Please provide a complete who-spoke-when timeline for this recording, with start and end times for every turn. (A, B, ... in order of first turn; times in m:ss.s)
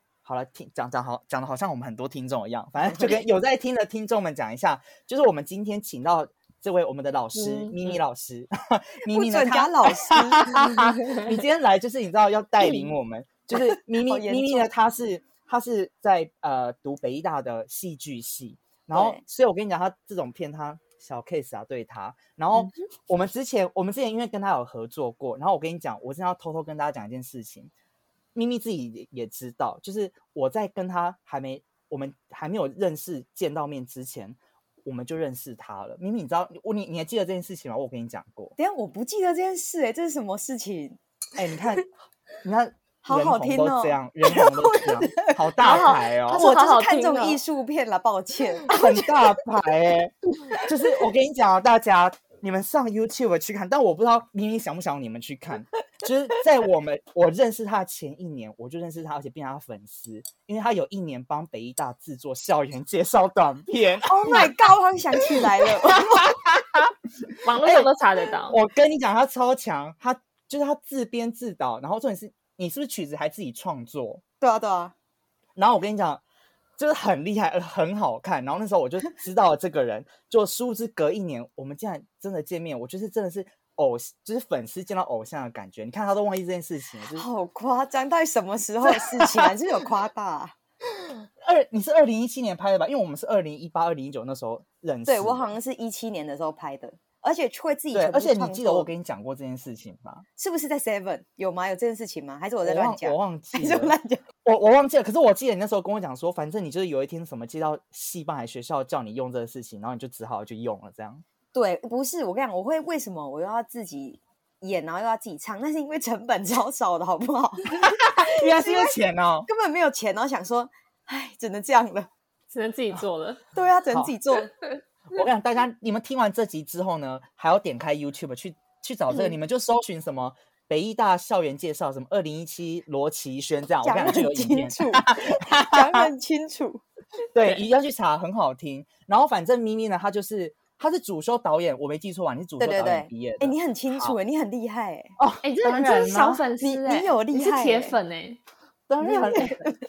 0:00.2-0:27.7 A
0:02.8-0:03.1 B
0:07.3-0:07.9 C
0:09.0-0:10.5 B
0:12.6-0:12.9 C
0:13.5-0:14.7 B
0:18.9-0:19.2 B
0:28.3-0:38.5 A
0:38.6-0:41.0 B
0:41.4-0:41.8 A
0:42.4-0:46.4 A
0:43.0-0:49.4 B
0:45.6-0:47.4 C
0:48.7-1:04.5 A
1:04.0-1:06.3 B
1:05.2-1:14.2 A
1:07.4-1:08.6 C
1:14.4-1:14.9 B
1:15.6-1:16.2 A
1:16.8-1:27.2 A
1:27.1-1:30.5 B
1:31.0-1:35.5 A
1:35.0-1:38.9 B
1:37.9-1:40.2 A
1:40.4-1:44.2 B
1:42.6-1:51.2 A
1:51.5-2:02.1 B
1:57.8-1:59.5 A
2:02.5-2:03.4 C
2:03.5-2:04.5 B
2:05.1-2:16.1 A
2:13.8-2:16.8 B
2:17.3-2:24.2 A
2:22.6-2:25.1 B
2:25.2-2:26.4 A
2:25.4-2:28.4 C
2:26.6-2:28.0 B
2:28.9-2:29.6 A
2:29.0-2:29.8 B
2:29.2-2:29.5 C